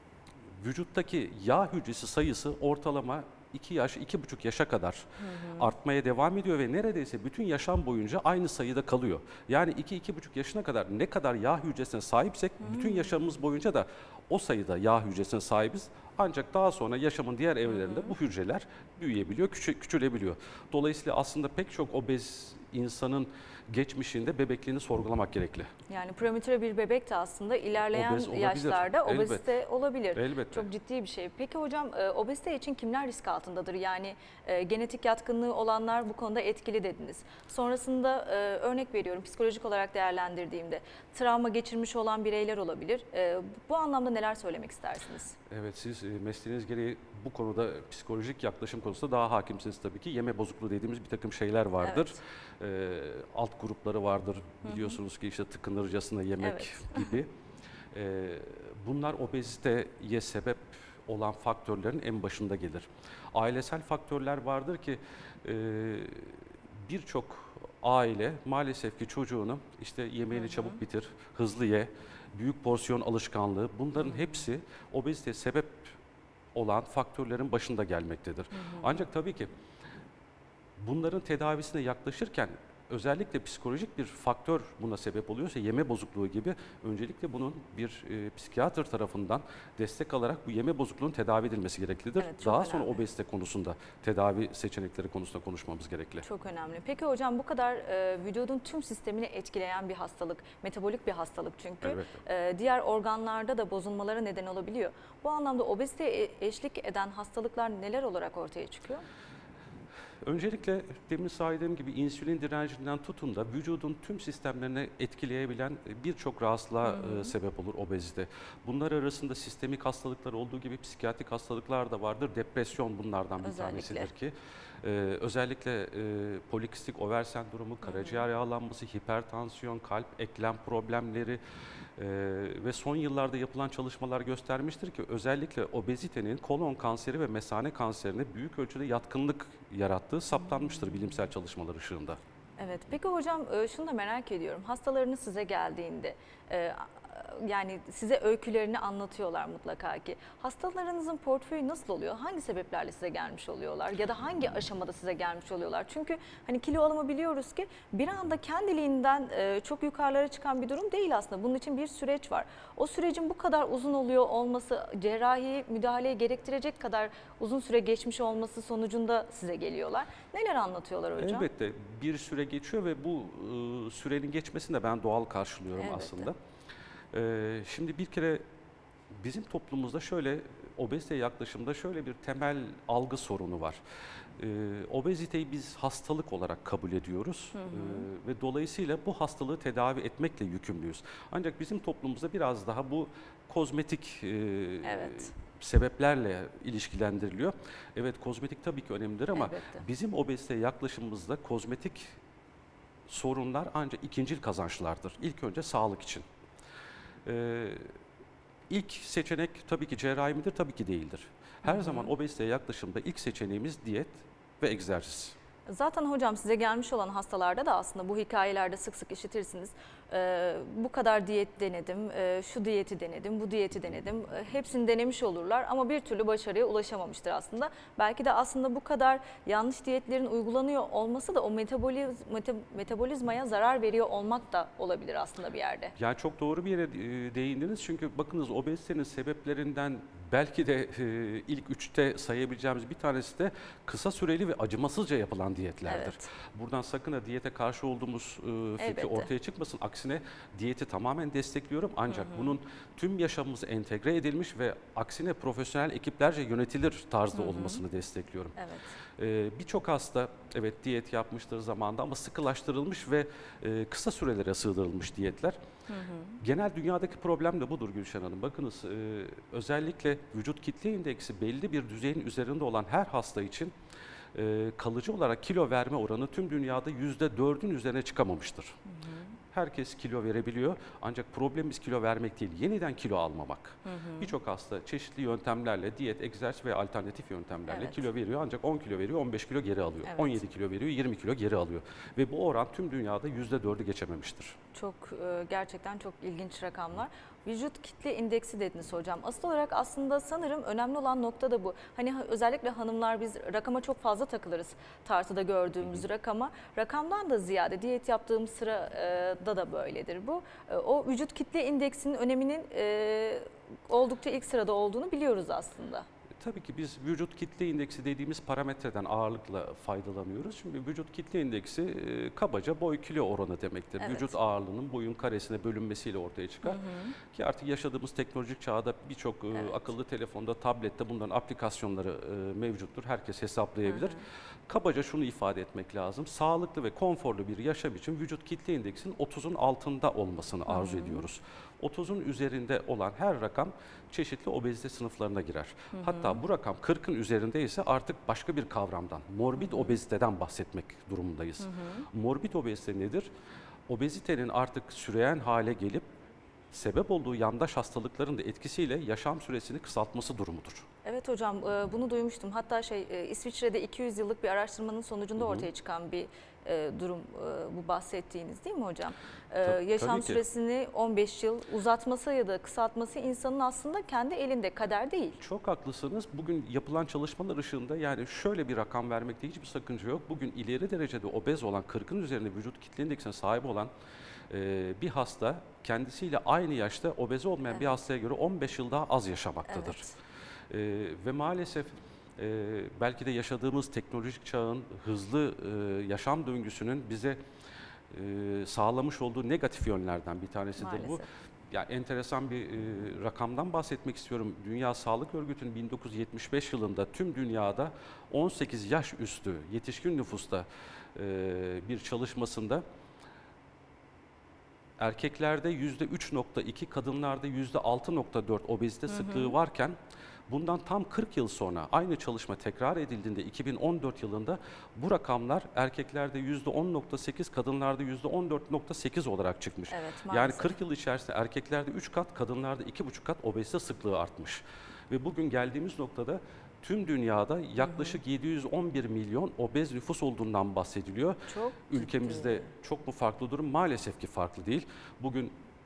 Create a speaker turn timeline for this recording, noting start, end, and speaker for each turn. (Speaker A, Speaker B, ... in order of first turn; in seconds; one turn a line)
Speaker A: 0.5-25.7
Speaker B: 5.3-5.6
Speaker B: 25.9-45.4
Speaker A: 27.9-29.5
Speaker A: 30.1-30.7
Speaker A: 45.5-57.3
Speaker B: 51.8-52.2
Speaker B: 54.7-54.9
Speaker B: 56.4-57.1
Speaker A: 57.9-76.0
Speaker A: 76.5-79.5
Speaker B: 78.6-78.8
Speaker A: 80.8-96.2
Speaker B: 92.2-93.0
Speaker B: 96.2-109.0
Speaker A: 101.8-102.2
Speaker A: 110.2-131.4
Speaker B: 116.9-117.3
Speaker B: 123.4-124.1
Speaker B: 127.8-128.2
Speaker A: 132.0-142.2
Speaker B: 142.6-171.5
Speaker A: 171.2-176.4
Speaker B: 175.8-176.3
Speaker A: 177.1-178.4
Speaker A: 179.1-183.8
Speaker A: 184.4-202.2
Speaker B: 187.6-188.1
Speaker B: 194.8-195.3
Speaker B: 199.3-199.8
Speaker A: 203.1-206.2
Speaker A: 207.2-207.9
Speaker A: 208.7-215.4
Speaker B: 211.7-212.1
Speaker B: 215.7-235.9
Speaker A: 236.0-258.6
Speaker B: 245.9-246.2
Speaker B: 248.8-249.3
Speaker B: 252.1-252.5
Speaker B: 257.4-257.8
Speaker B: 258.6-258.9
Speaker A: 259.2-265.6
Speaker B: 265.9-266.4
Speaker A: 266.4-273.7
Speaker A: 274.3-278.8
Speaker B: 279.0-279.3
Speaker A: 279.5-294.6
Speaker B: 283.9-284.3
Speaker B: 287.7-288.0
Speaker B: 290.1-290.3
Speaker B: 294.7-316.1
Speaker A: 316.4-334.2
Speaker B: 324.0-324.3
Speaker B: 326.6-327.1
Speaker B: 333.9-334.2
Speaker A: 334.7-353.3
Speaker B: 340.7-341.2
Speaker B: 345.9-346.4
Speaker B: 349.7-349.9
Speaker B: 351.6-352.0
Speaker A: 353.9-356.1
Speaker A: 356.7-360.9
Speaker B: 361.1-375.4
Speaker A: 365.4-365.7
Speaker A: 369.6-370.4
Speaker A: 375.4-383.9
Speaker A: 384.5-390.1
Speaker B: 389.7-390.1
Speaker A: 390.7-397.4
Speaker A: 398.1-412.8
Speaker B: 400.8-401.3
Speaker A: 415.0-420.0
Speaker B: 419.2-419.5
Speaker A: 420.5-445.5
Speaker B: 429.9-430.8
Speaker B: 437.9-438.1
Speaker B: 441.5-442.7